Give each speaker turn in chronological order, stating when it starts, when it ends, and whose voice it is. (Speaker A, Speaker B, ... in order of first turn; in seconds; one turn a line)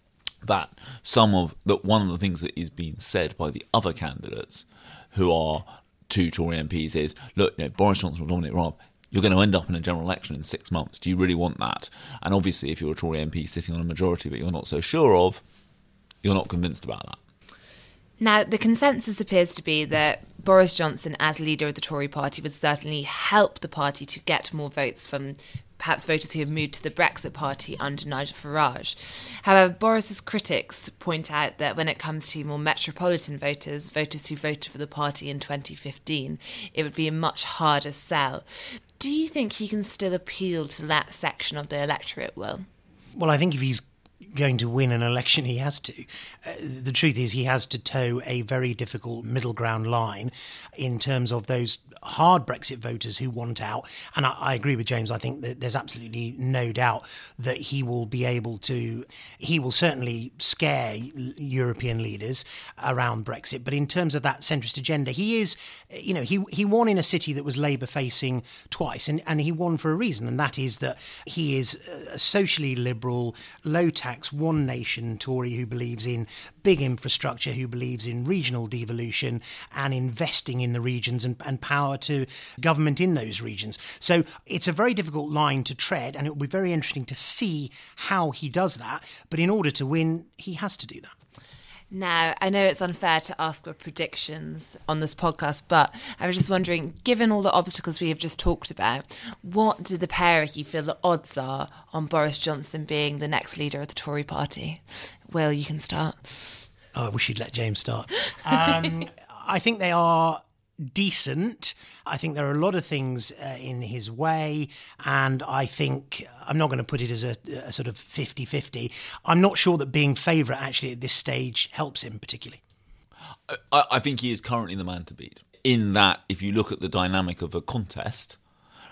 Speaker A: 0.4-15.4
Speaker A: 16.2-17.2
Speaker B: 18.2-38.5
Speaker B: 39.0-42.6
Speaker C: 43.2-91.1
Speaker B: 91.9-106.6
Speaker C: 106.9-122.6
Speaker A: 123.5-128.4